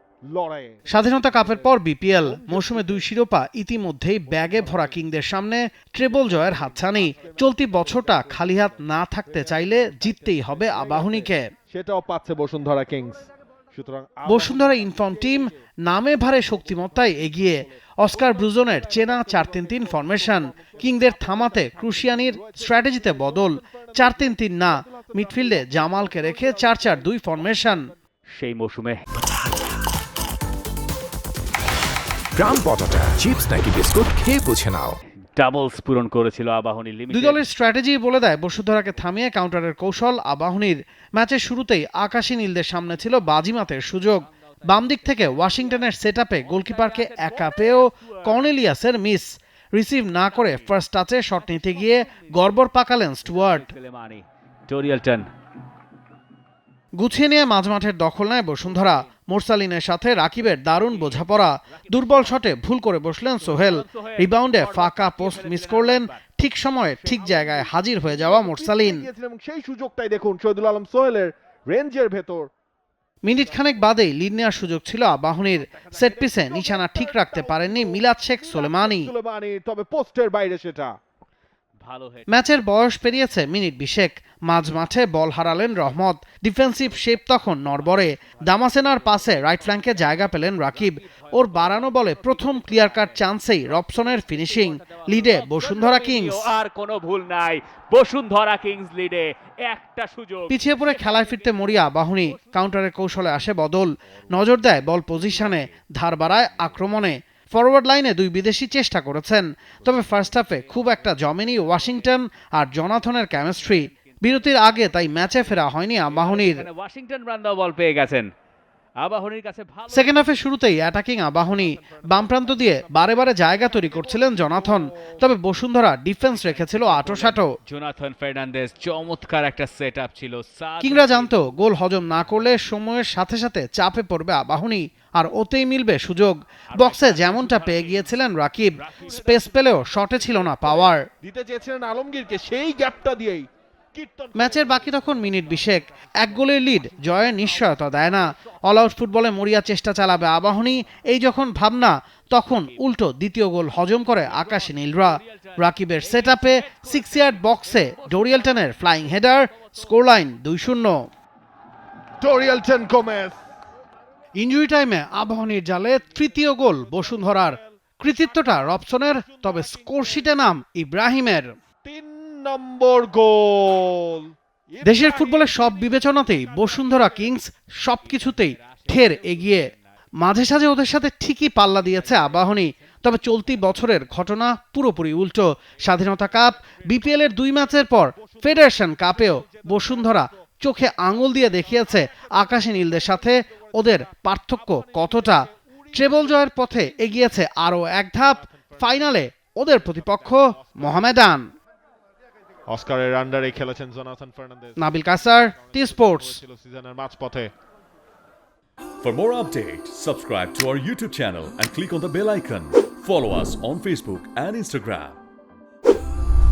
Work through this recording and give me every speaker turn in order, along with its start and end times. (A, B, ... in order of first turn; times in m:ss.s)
0:00.3-0:03.1 A
0:00.9-0:11.4 B
0:04.3-0:05.0 A
0:06.0-0:15.5 A
0:14.2-0:27.9 B
0:16.4-0:27.9 A
0:28.3-0:29.0 C
0:32.4-0:35.0 D
0:35.4-0:37.4 C
0:37.1-0:53.7 B
0:44.2-0:48.4 C
0:50.2-0:50.7 C
0:51.4-0:52.5 C
0:53.2-0:55.3 C
0:57.0-1:09.1 B
1:00.7-1:02.5 C
1:03.4-1:06.2 C
1:07.0-1:07.7 C
1:08.0-1:12.5 A
1:13.2-1:19.1 B
1:15.7-1:21.0 A
1:21.8-1:22.5 C
1:22.3-1:36.5 B
1:27.8-1:43.2 C
1:40.5-1:56.7 B
1:44.8-1:45.7 C
1:46.5-1:46.8 C
1:49.9-1:52.1 C
1:53.2-1:58.3 C
1:59.0-2:00.3 C
1:59.9-2:07.5 B
2:01.4-2:05.2 A
2:06.3-2:11.5 C
2:10.8-2:21.0 B
2:16.7-2:18.2 C
2:18.8-2:19.2 C
2:19.4-2:28.7 A
2:24.3-2:41.0 B
2:34.0-2:40.0 C
2:42.2-2:43.4 A
2:44.4-2:51.5 B
2:46.0-2:50.3 A
2:51.8-2:57.3 A
2:54.8-3:15.4 B
2:58.0-2:59.8 C
3:01.8-3:03.7 C
3:05.9-3:10.3 A
3:11.3-3:17.2 A
3:15.9-3:21.5 B
3:18.1-3:21.1 A
3:22.7-3:24.8 A
3:24.8-3:26.4 B
3:25.5-3:27.5 A
3:29.0-3:35.2 E